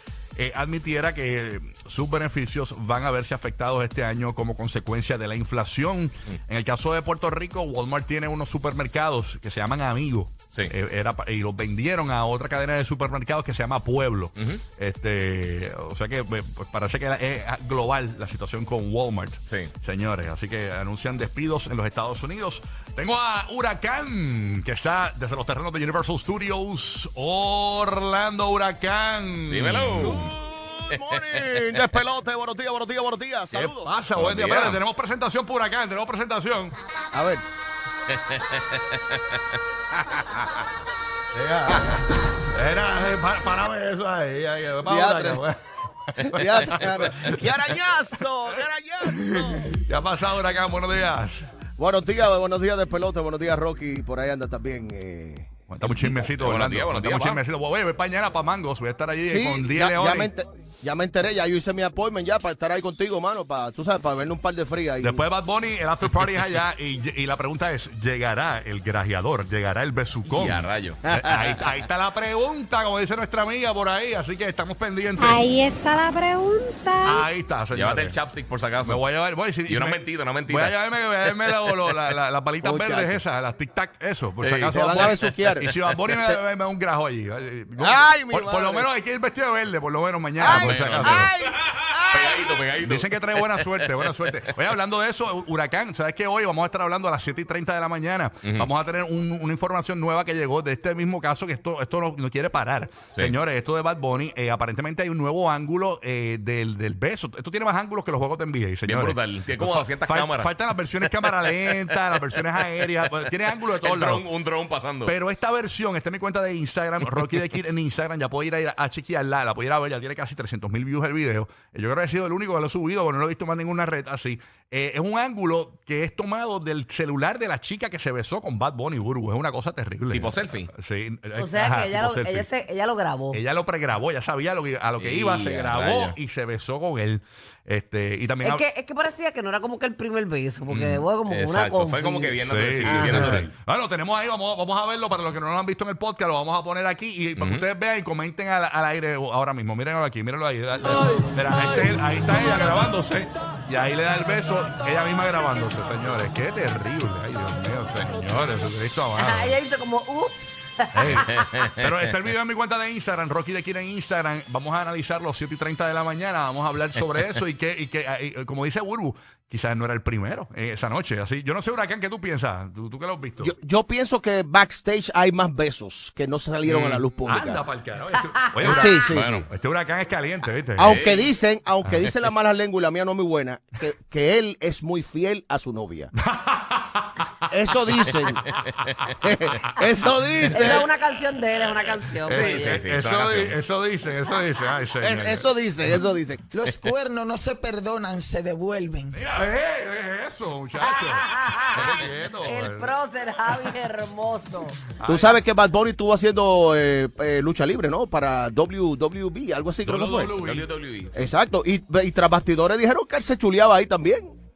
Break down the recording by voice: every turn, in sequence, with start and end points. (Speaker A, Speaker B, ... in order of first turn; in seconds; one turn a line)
Speaker A: 0.3-30.3
Speaker B: 14.3-14.6
Speaker B: 29.5-30.2
Speaker C: 30.0-34.0
Speaker B: 30.9-31.8
Speaker A: 33.5-36.8
Speaker B: 34.1-34.8
Speaker C: 37.1-37.4
Speaker B: 38.1-40.5
Speaker A: 41.3-45.6
Speaker C: 44.8-45.4
Speaker A: 46.1-47.7
Speaker C: 46.3-49.7
Speaker B: 46.7-47.1
Speaker A: 49.0-51.5
Speaker C: 51.8-56.3
Speaker A: 55.7-60.3
Speaker B: 56.3-57.4
Speaker C: 59.3-65.2
Speaker A: 65.0-75.5
Speaker B: 70.3-71.1
Speaker D: 75.2-77.2
Speaker A: 77.0-78.2
Speaker B: 77.7-79.0
Speaker A: 78.8-91.3
Speaker B: 79.6-80.8
Speaker B: 81.4-81.9
Speaker C: 82.6-83.2
Speaker B: 84.4-85.1
Speaker C: 84.5-86.4
Speaker C: 87.8-88.9
Speaker C: 90.4-92.5
Speaker B: 90.4-91.3
Speaker B: 92.1-94.3
Speaker A: 92.8-114.2
Speaker B: 98.4-98.7
Speaker B: 108.8-112.2
Speaker B: 113.8-115.1
Speaker A: 115.0-132.5
Speaker B: 130.1-130.7
Speaker E: 131.3-133.4
Speaker A: 133.3-138.7
Speaker B: 135.0-136.2
Speaker E: 138.4-143.4
Speaker A: 140.7-141.0
Speaker B: 140.7-143.5
Speaker A: 142.4-159.6
Speaker B: 147.4-147.7
Speaker E: 159.1-161.4
Speaker A: 160.9-173.5
Speaker B: 161.4-162.2
Speaker C: 173.4-177.7
Speaker B: 176.6-177.0
Speaker A: 177.2-181.0
Speaker C: 178.6-179.4
Speaker B: 179.1-179.4
Speaker C: 180.8-186.1
Speaker B: 180.8-181.3
Speaker A: 186.2-187.5
Speaker C: 187.5-188.4
Speaker C: 189.2-190.9
Speaker E: 190.4-192.8
Speaker A: 192.2-195.6
Speaker B: 192.3-193.6
Speaker C: 195.0-196.4
Speaker F: 196.5-199.1
Speaker A: 199.1-203.0
Speaker E: 200.8-204.8
Speaker A: 205.0-205.4
Speaker C: 205.1-210.3
Speaker A: 209.8-210.7
Speaker B: 210.3-211.3
Speaker C: 211.1-214.3